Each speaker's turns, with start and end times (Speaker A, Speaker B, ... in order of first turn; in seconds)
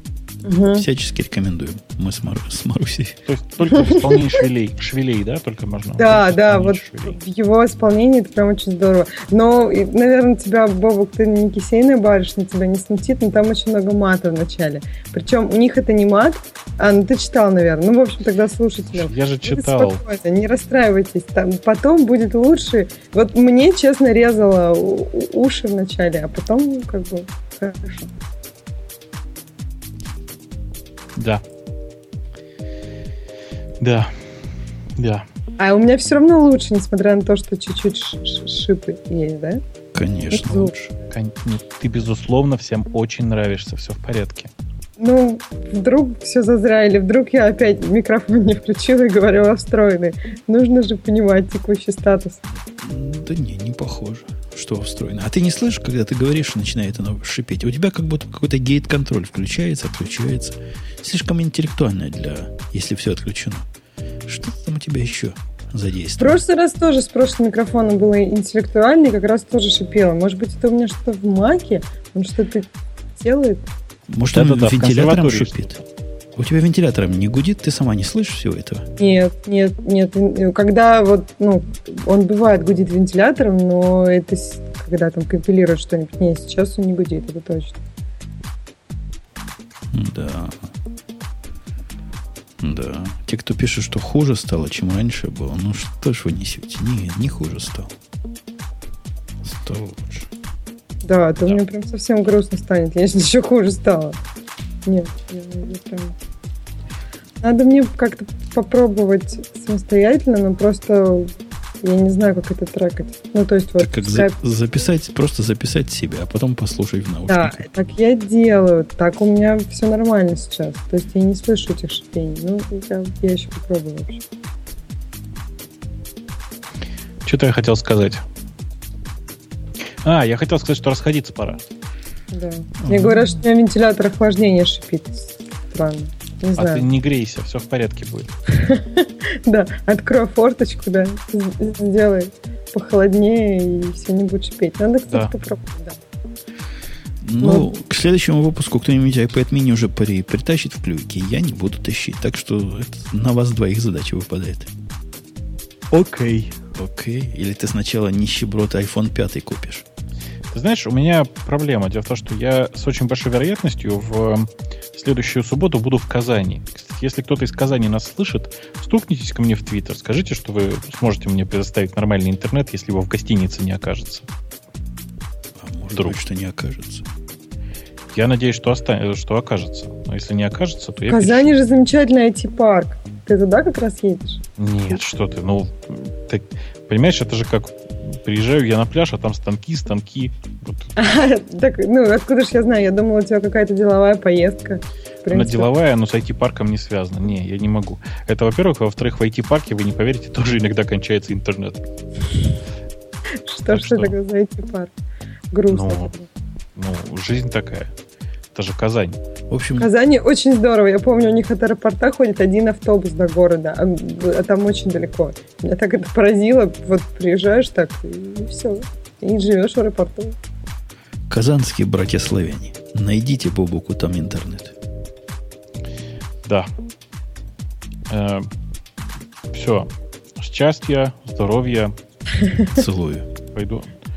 Speaker A: 0.4-0.8, 3.7-4.4, 6.0-28.1, 35.6-39.6, 40.3-40.7, 45.0-52.4, 66.2-73.6, 79.0-87.8, 101.0-104.2, 104.8-106.1, 107.4-111.3, 111.8-114.3, 117.3-124.2, 132.3-136.9, 138.5-146.0, 147.4-147.7, 181.1-184.4, 191.0-195.7, 203.4-204.9, 205.5-206.2, 209.8-220.3
Speaker B: 0.7-3.2, 39.9-40.9, 52.8-63.6, 64.2-66.4, 74.1-75.7, 76.3-78.9, 89.9-90.7, 92.6-97.9, 99.4-100.3, 113.8-117.7, 132.8-133.4, 147.2-154.7, 156.7-159.8, 175.6-177.1, 209.5-209.9, 221.3-224.7, 232.7-233.3
Speaker C: 3.3-7.2, 18.9-20.0, 31.1-31.4, 33.8-35.2, 41.1-44.5, 74.3-75.8, 127.2-128.2, 130.0-131.6, 136.6-138.3, 155.9-156.6, 160.5-174.2, 178.1-181.5, 184.6-190.9, 195.3-201.8, 203.7-204.1, 205.7-206.1, 206.8-207.9, 208.5-209.2, 228.1-228.5, 229.5-231.9, 233.5-233.9